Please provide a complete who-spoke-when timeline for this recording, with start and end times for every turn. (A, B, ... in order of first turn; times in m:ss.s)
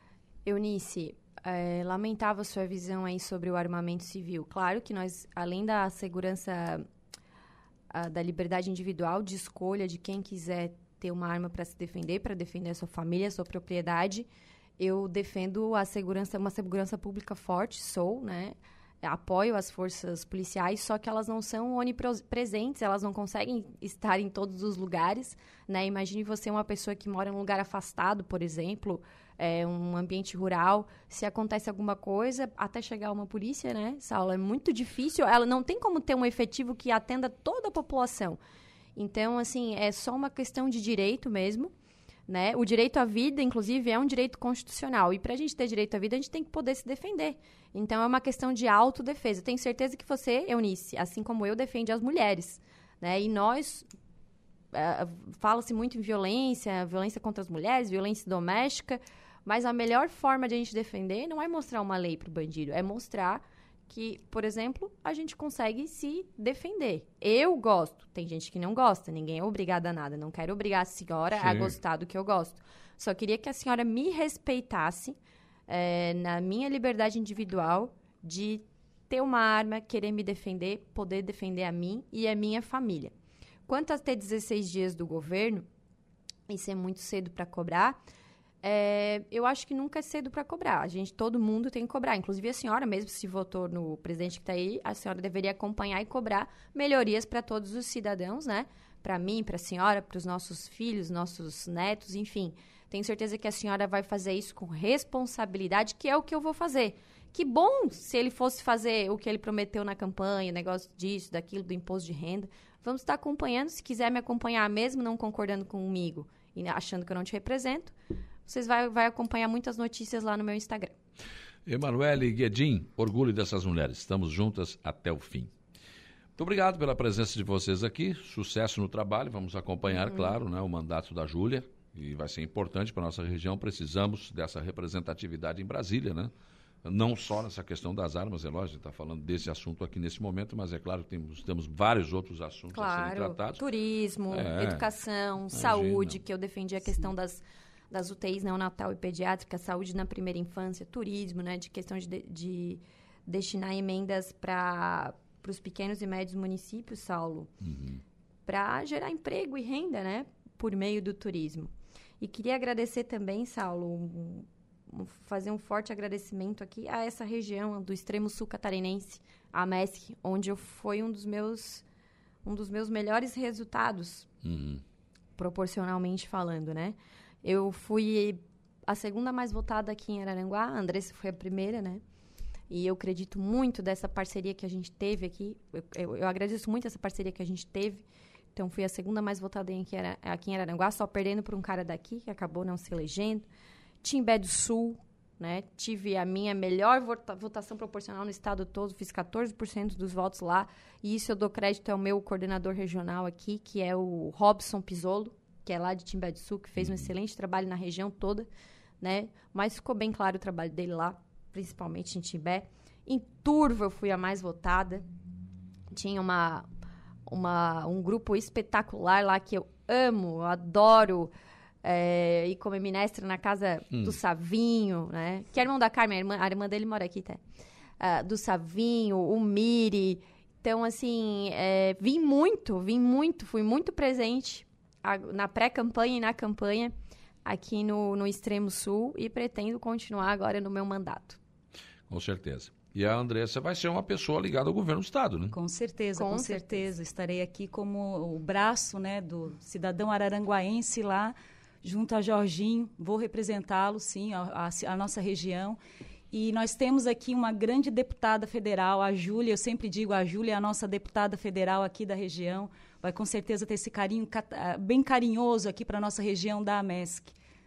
0:00.4-0:06.8 A
0:07.9-0:14.3 A
0:14.8-0:38.4 A
0:39.0-0:41.7 A
0:42.3-0:53.9 A
0:54.7-1:15.2 A
1:11.4-1:11.8 B
1:15.7-1:23.1 A
1:23.7-1:25.7 A
1:26.5-1:28.0 A
1:28.6-1:57.9 A
1:58.5-2:00.9 A
2:01.7-2:05.5 B
2:06.4-2:16.3 B
2:10.0-2:10.4 A
2:16.8-2:23.6 B
2:22.7-2:37.5 A
2:24.3-2:24.9 B
2:25.5-2:26.2 B
2:37.6-2:38.0 B
2:38.5-2:51.8 A
2:52.4-2:54.3 A
2:54.4-2:54.8 B
2:55.4-3:02.0 A
3:02.7-3:13.5 A
3:14.0-3:28.5 A
3:29.0-3:35.0 A
3:35.9-3:36.7 A
3:37.3-3:47.4 A
3:48.0-3:56.9 A
3:57.4-4:01.4 A
4:02.1-4:05.6 B
4:05.5-4:15.8 C
4:06.2-4:06.9 A
4:16.3-4:27.4 C